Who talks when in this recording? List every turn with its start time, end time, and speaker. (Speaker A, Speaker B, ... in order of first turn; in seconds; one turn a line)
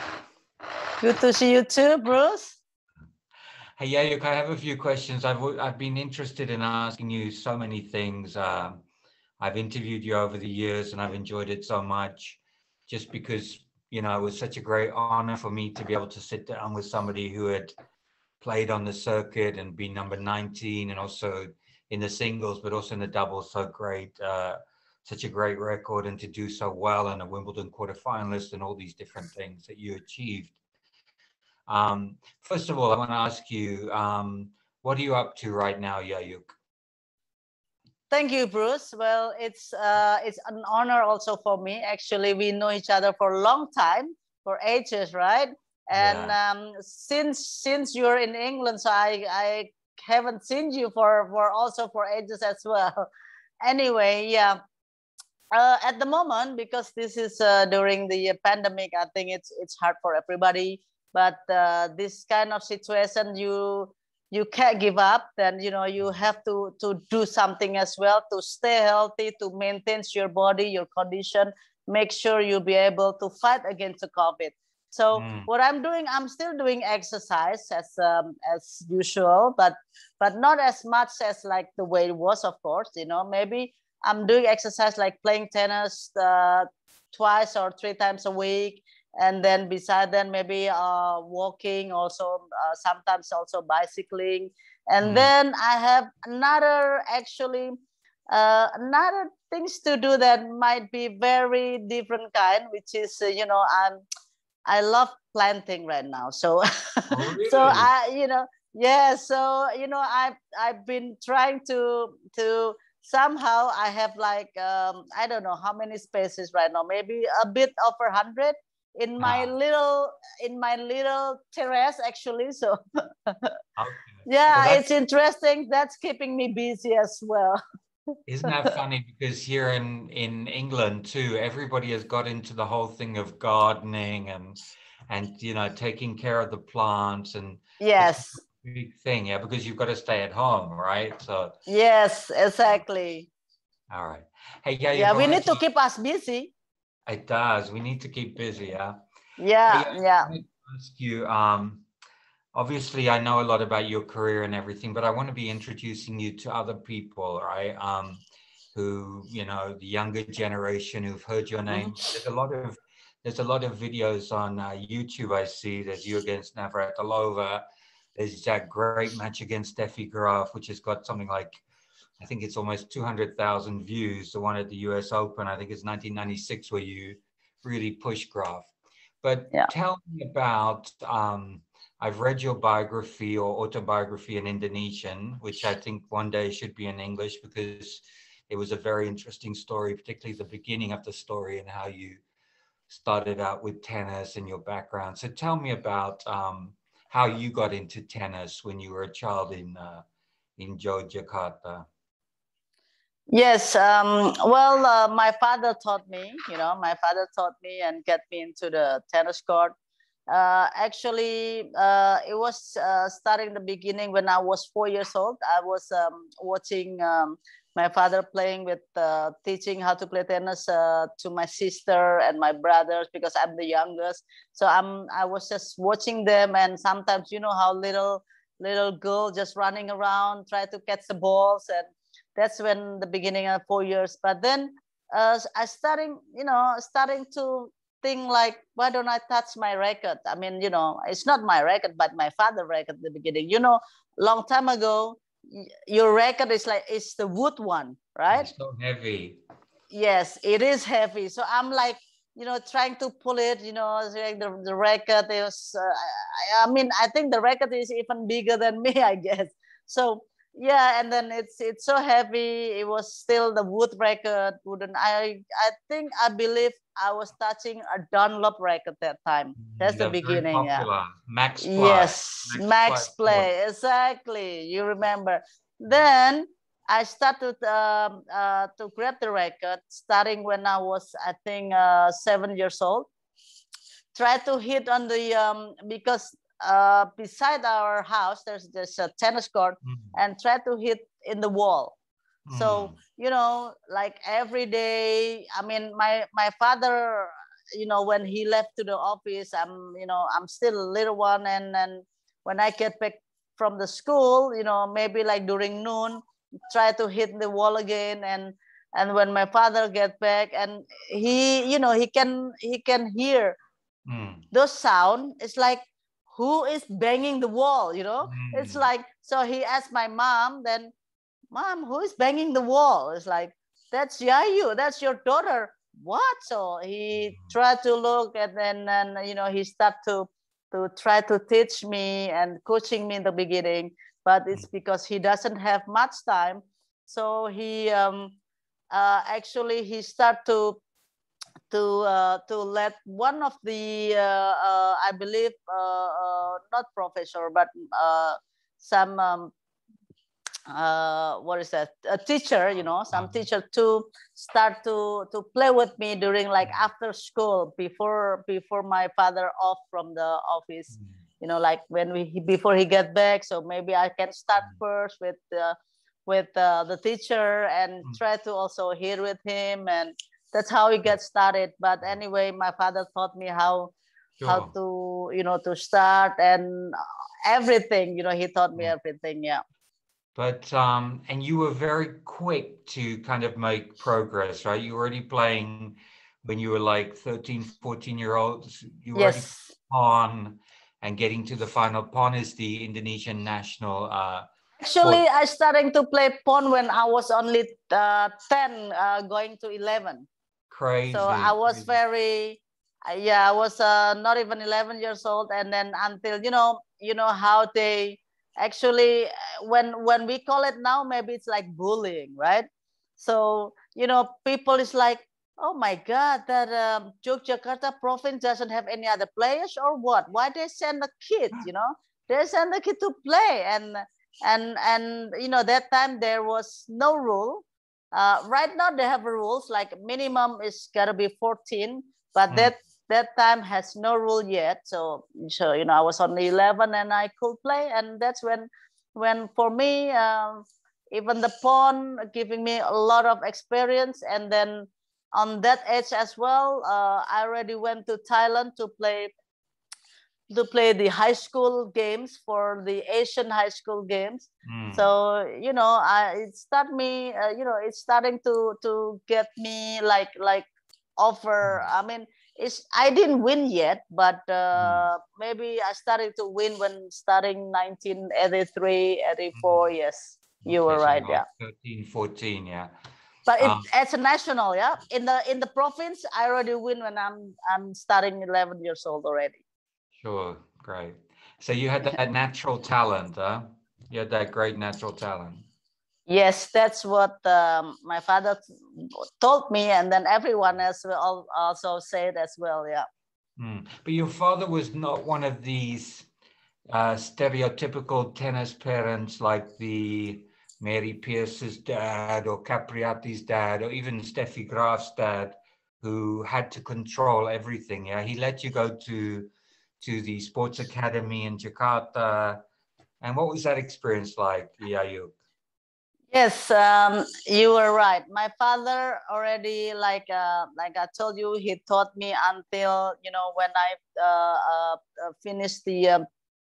Speaker A: 1.0-2.6
Speaker B: 3.8-8.8
Speaker B: 9.4-17.8
Speaker B: 18.4-30.6
Speaker B: 31.7-36.5
Speaker A: 38.1-53.1
Speaker B: 45.9-46.4
Speaker A: 53.6-54.6
Speaker A: 55.5-97.8
Speaker B: 75.1-75.5
Speaker B: 95.0-95.3
Speaker A: 98.3-104.0
Speaker A: 104.7-123.5
Speaker B: 107.1-107.9
Speaker B: 119.2-119.5
Speaker B: 123.8-124.8
Speaker A: 124.3-127.6
Speaker B: 128.3-134.6
Speaker B: 135.1-141.6
Speaker A: 137.8-138.4
Speaker A: 141.7-143.3
Speaker B: 143.9-145.6
Speaker A: 144.9-146.5
Speaker B: 147.1-149.0
Speaker A: 149.4-150.3
Speaker B: 149.7-151.8
Speaker B: 152.5-158.2
Speaker B: 158.7-167.6
Speaker A: 161.7-162.0
Speaker B: 168.2-171.6
Speaker B: 172.2-178.7
Speaker B: 179.2-192.2
Speaker B: 192.9-200.1
Speaker B: 200.6-201.9
Speaker A: 203.3-209.7
Speaker A: 210.3-248.5
Speaker B: 248.3-249.4
Speaker A: 249.9-270.9
Speaker B: 269.6-273.5
Speaker A: 271.6-283.1
Speaker A: 284.1-291.9
Speaker B: 289.8-290.1
Speaker B: 292.5-293.0
Speaker A: 292.5-313.6
Speaker B: 314.1-314.4
Speaker A: 314.5-320.9
Speaker B: 318.2-318.9
Speaker A: 321.5-338.4
Speaker B: 327.2-327.5
Speaker A: 338.9-340.8
Speaker A: 341.7-349.5
Speaker A: 350.7-373.9
Speaker B: 353.1-353.4
Speaker B: 374.4-374.7
Speaker A: 374.5-379.6
Speaker B: 380.4-394.5
Speaker A: 389.1-389.7
Speaker A: 394.8-400.3
Speaker B: 400.7-402.0
Speaker A: 401.1-412.7
Speaker A: 413.2-449.3
Speaker A: 450.5-460.7
Speaker B: 454.6-455.1
Speaker A: 461.2-471.4
Speaker B: 461.6-461.9
Speaker B: 464.8-465.1
Speaker B: 469.5-469.9
Speaker B: 470.6-472.9
Speaker A: 473.5-479.6
Speaker B: 473.6-473.9
Speaker B: 480.2-485.7
Speaker A: 486.3-493.1
Speaker B: 493.6-496.3
Speaker B: 496.9-509.5
Speaker B: 510.0-512.6
Speaker B: 513.2-515.4
Speaker A: 516.3-526.2